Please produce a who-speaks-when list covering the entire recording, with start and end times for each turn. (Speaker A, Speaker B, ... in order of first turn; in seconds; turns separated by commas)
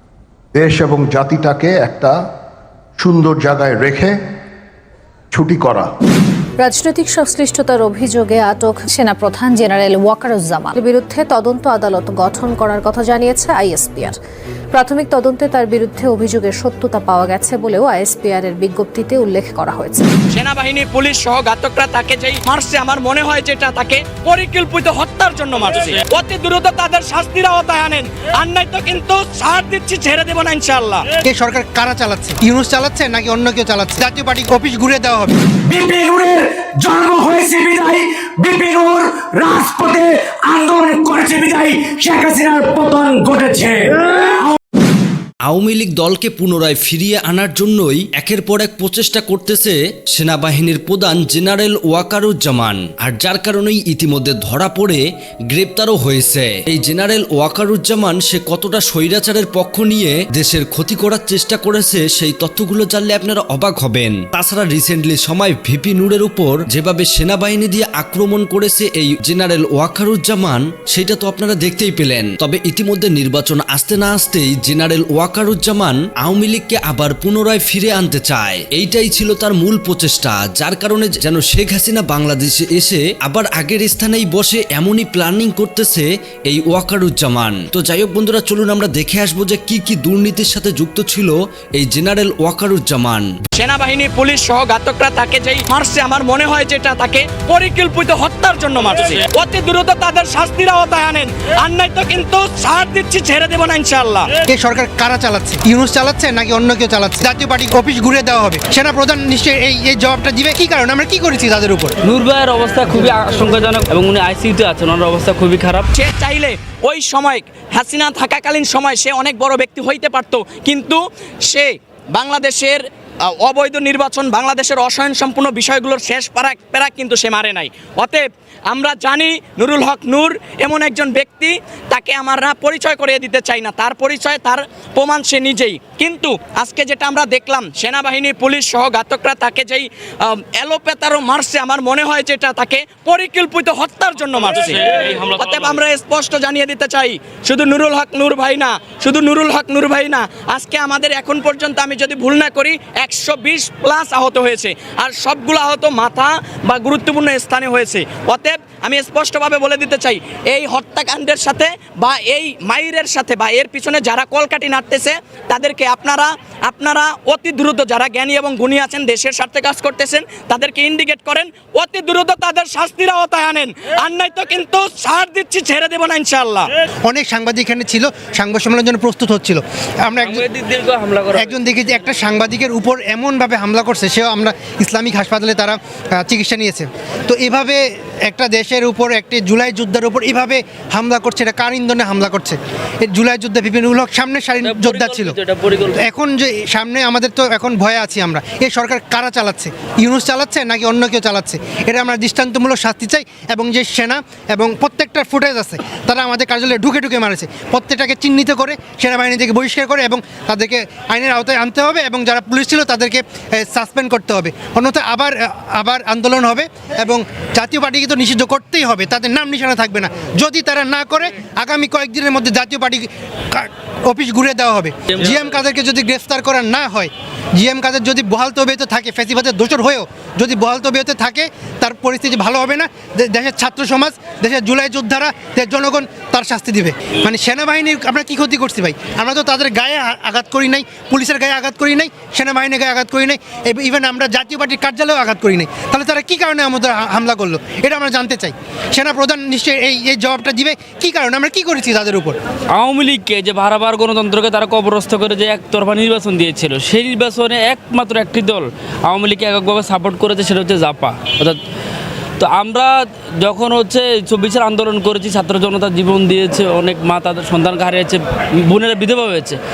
Speaker A: 0.5-2.2, Speaker A: 3.0-4.2, Speaker A: 5.3-5.9, Speaker B: 6.6-14.2, Speaker B: 14.7-20.1, Speaker C: 20.3-31.1, Speaker D: 31.3-35.4, Speaker E: 35.7-44.4, Speaker F: 45.5-93.3, Speaker C: 93.5-104.4, Speaker D: 104.5-112.0, Speaker G: 112.0-115.9, Speaker C: 115.9-176.7, Speaker G: 144.6-145.8, Speaker D: 177.1-180.4, Speaker G: 180.2-182.1, Speaker D: 181.3-195.4, Speaker G: 194.6-196.0, Speaker D: 196.0-252.4, Speaker G: 225.1-225.6, Speaker G: 252.7-261.6, Speaker G: 262.4-269.6